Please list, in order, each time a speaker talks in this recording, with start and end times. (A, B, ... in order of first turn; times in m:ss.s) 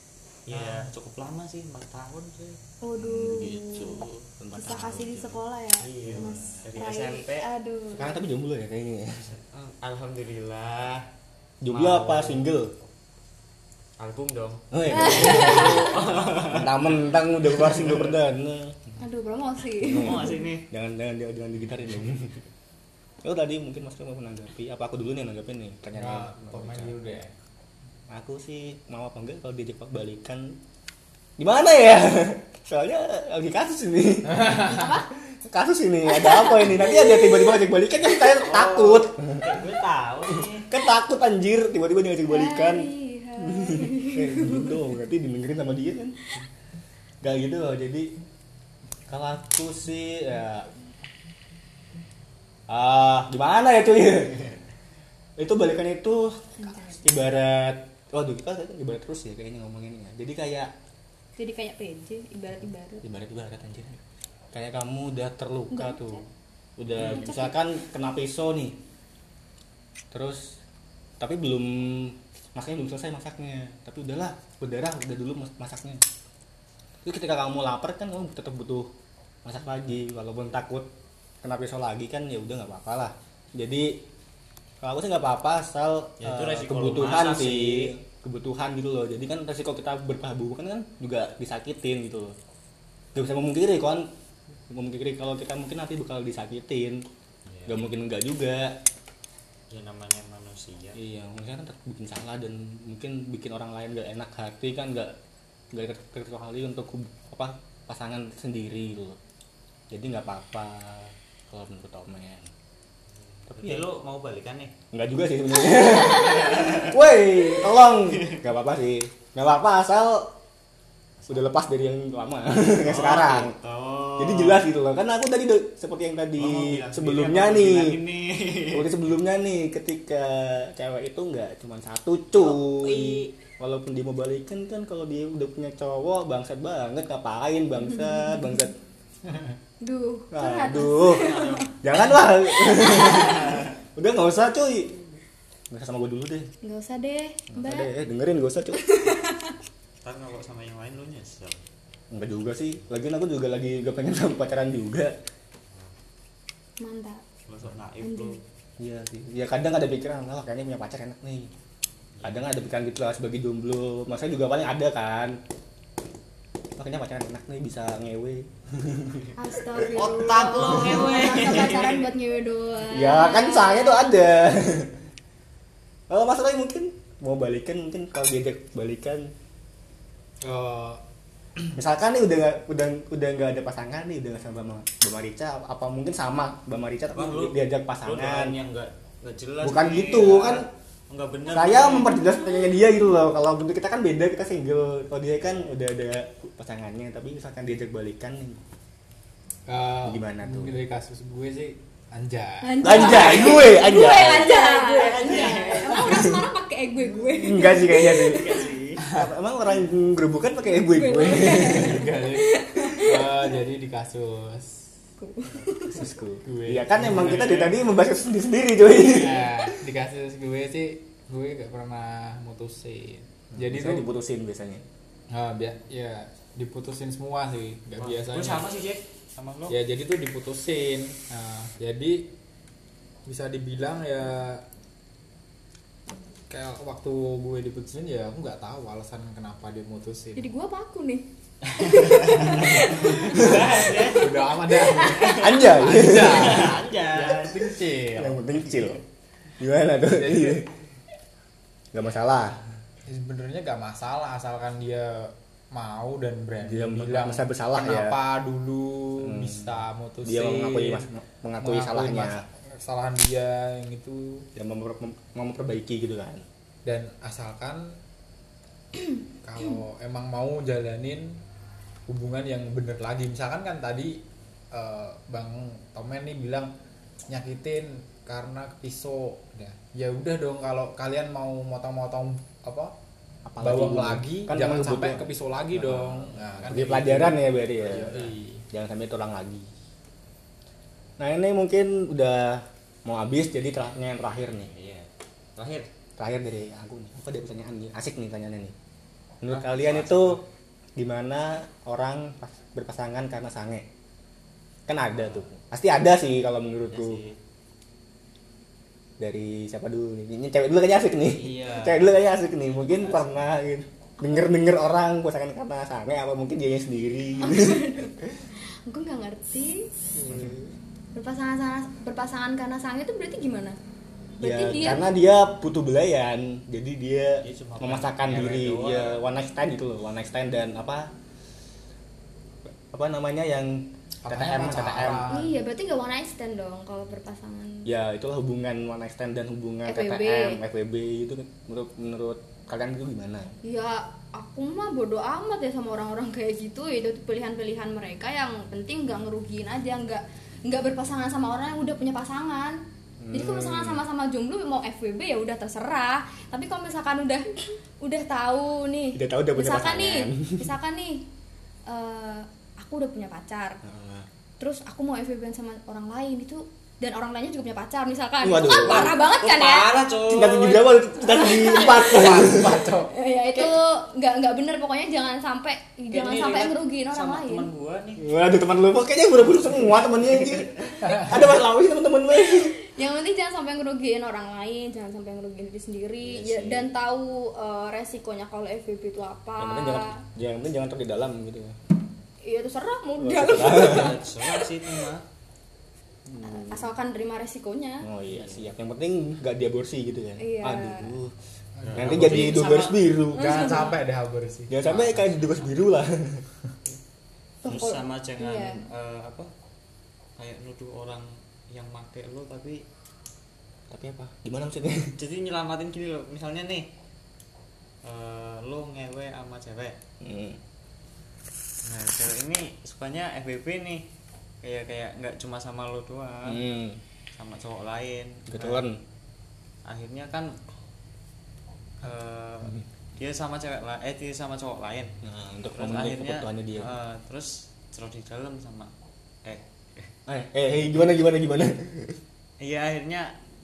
0:00.5-0:02.6 A
0:00.5-0:00.9 B
0:02.8-0:08.2 C
0:03.0-0:05.4 B
0:05.8-0:07.5 A
0:06.1-0:06.6 B
0:07.9-0:09.3 B
0:09.2-0:11.0 A
0:11.6-0:12.7 B
0:11.7-0:12.4 A
0:14.0-0:17.0 A
0:14.7-0:18.8 B
0:14.9-0:16.0 C
0:17.6-0:18.1 A
0:19.0-0:20.4 C
0:19.8-0:22.3 B
0:20.0-0:20.7 A
0:23.2-0:27.1 B
0:26.0-0:27.3 D
0:28.1-0:30.6 B
0:31.4-0:39.5 B
0:34.3-0:34.8 D
0:34.6-0:35.1 C
0:36.1-0:37.6 C
0:38.2-0:40.7 A
0:40.3-0:42.9 B
0:42.3-0:44.8 C
0:43.4-0:46.2 B
0:47.2-0:48.1 B
0:49.1-0:50.7 B
0:52.7-0:54.6 B
0:55.4-1:00.7 B
0:56.6-0:57.0 C
1:01.4-1:03.0 C
1:03.0-1:04.0 B
1:04.5-1:06.2 B
1:05.7-1:06.2 C
1:06.8-1:08.8 B
1:07.0-1:07.5 C
1:10.1-1:10.6 B
1:11.2-1:16.0 B
1:17.0-1:18.9 B
1:19.4-1:20.9 B
1:21.4-1:24.0 B
1:24.8-1:32.4 B
1:26.2-1:27.9 A
1:33.1-1:34.1 B
1:34.7-1:37.0 B
1:37.4-1:37.8 A
1:37.7-1:38.8 B
1:39.7-1:41.0 A
1:40.9-1:45.1 B
1:45.7-1:49.2 B
1:49.9-1:52.5 B
1:53.2-1:54.7 A
1:53.5-1:53.8 B
1:54.9-2:00.3 B
1:55.8-1:56.5 C
1:56.1-1:57.0 A
2:01.3-2:03.6 B
2:02.8-2:04.6 A
2:04.2-2:08.0 B
2:06.4-2:08.9 A
2:08.7-2:18.7 B
2:12.4-2:13.3 A
2:19.8-2:21.5 C
2:20.3-2:25.0 B
2:21.1-2:21.9 A
2:22.5-2:23.4 C
2:23.2-2:23.7 A
2:25.7-2:26.5 B
2:26.6-2:27.9 C
2:27.5-2:28.9 B
2:28.8-2:29.6 C
2:30.0-2:31.6 A
2:32.1-2:35.1 B
2:36.8-2:37.2 C
2:37.4-2:38.4 A
2:38.0-2:38.4 C
2:38.8-2:41.5 B
2:42.2-2:42.6 A
2:42.2-2:45.4 B
2:46.8-2:51.1 B
2:49.4-2:54.4 C
2:49.9-2:52.0 A
2:52.9-2:55.0 B
2:56.1-2:59.3 B
3:00.4-3:01.0 D
3:01.7-3:08.6 B
3:07.1-3:12.2 A
3:09.6-3:10.7 B
3:11.5-3:18.6 B
3:15.4-3:15.7 A
3:19.6-3:23.3 D
3:20.0-3:20.8 B
3:22.6-3:28.6 C
3:22.8-3:24.6 B
3:24.6-3:26.2 A
3:25.9-3:26.4 B
3:27.2-3:32.2 B
3:28.2-3:29.1 A
3:30.8-3:33.6 C
3:31.6-3:34.8 D
3:35.2-3:36.1 C
3:35.9-3:39.5 B
3:36.4-3:37.7 D
3:37.0-3:37.8 A
3:39.0-3:44.1 D
3:43.5-3:44.8 B
3:45.3-3:48.7 D
3:48.0-3:49.8 A
3:49.7-3:52.3 D
3:53.2-3:54.6 D
3:56.5-4:00.5 D
4:00.4-4:01.2 C
4:01.7-4:05.5 A
4:01.8-4:03.1 C
4:02.4-4:08.6 D
4:03.1-4:03.8 B
4:04.8-4:05.3 C
4:05.4-4:06.8 B
4:06.1-4:07.6 A
4:08.1-4:09.0 B
4:08.7-4:09.0 A
4:09.6-4:10.6 B
4:10.0-4:10.6 D
4:11.9-4:12.6 B
4:13.0-4:21.1 D
4:16.6-4:18.2 B
4:19.2-4:19.7 B
4:20.2-4:22.4 B
4:21.6-4:24.4 D
4:24.5-4:26.4 B
4:26.8-4:28.0 D
4:29.4-4:31.4 D
4:32.1-4:36.7 D
4:37.3-4:42.9 D
4:43.4-4:49.7 B
4:43.6-4:48.6 D
4:51.2-4:54.7 B
4:54.4-4:55.9 A
4:56.2-4:58.7 B
4:59.4-5:00.4 B
4:59.5-5:00.4 A
5:01.0-5:03.8 B
5:04.9-5:07.2 B
5:05.1-5:05.5 A
5:06.9-5:07.4 A
5:09.2-5:18.4 B
5:11.2-5:12.1 A
5:17.4-5:18.1 C
5:18.8-5:19.9 C
5:20.1-5:20.7 B
5:20.3-5:20.5 A
5:21.1-5:23.8 C
5:24.4-5:25.0 C
5:24.4-5:31.1 B
5:27.4-5:29.2 A
5:32.7-5:35.3 B
5:34.2-5:35.6 D
5:35.3-5:37.9 C
5:37.8-5:43.5 B
5:39.8-5:40.6 C
5:43.6-5:52.8 C
5:53.2-5:54.0 B
5:53.3-6:01.3 C
5:59.1-6:00.6 B
6:01.9-6:03.8 C
6:03.8-6:04.3 B
6:04.6-6:09.9 C
6:08.4-6:09.2 B
6:08.6-6:11.0 A
6:10.3-6:12.9 B
6:11.2-6:12.5 C
6:11.9-6:13.1 D
6:13.1-6:17.7 C
6:16.1-6:18.3 A
6:18.2-6:22.8 B
6:22.4-6:30.2 C
6:26.2-6:26.9 B
6:29.6-6:31.8 B
6:32.4-6:34.5 C
6:33.2-6:34.2 B
6:33.7-6:35.2 A
6:36.2-6:36.9 B
6:36.4-6:38.1 C
6:38.0-6:41.3 B
6:38.3-6:38.7 A
6:40.4-6:41.1 C
6:41.8-6:42.6 D
6:41.8-6:43.1 A
6:41.9-6:43.9 B
6:43.2-6:45.1 D
6:43.3-6:44.0 C
6:44.7-6:46.4 B
6:44.8-6:45.8 A
6:47.6-6:48.8 C
6:47.6-6:49.5 A
6:50.4-6:52.8 A
6:53.9-6:55.1 B
6:55.1-6:56.9 A
6:58.0-7:00.0 A
7:00.2-7:00.6 B
7:01.8-7:04.0 A
7:04.6-7:06.6 A
7:06.4-7:07.0 B
7:07.4-7:08.9 A
7:08.5-7:09.0 B
7:09.8-7:10.6 A
7:12.0-7:15.2 A
7:15.2-7:16.9 B
7:15.7-7:18.9 A
7:19.4-7:20.1 A
7:20.2-7:22.2 B
7:22.6-7:23.3 A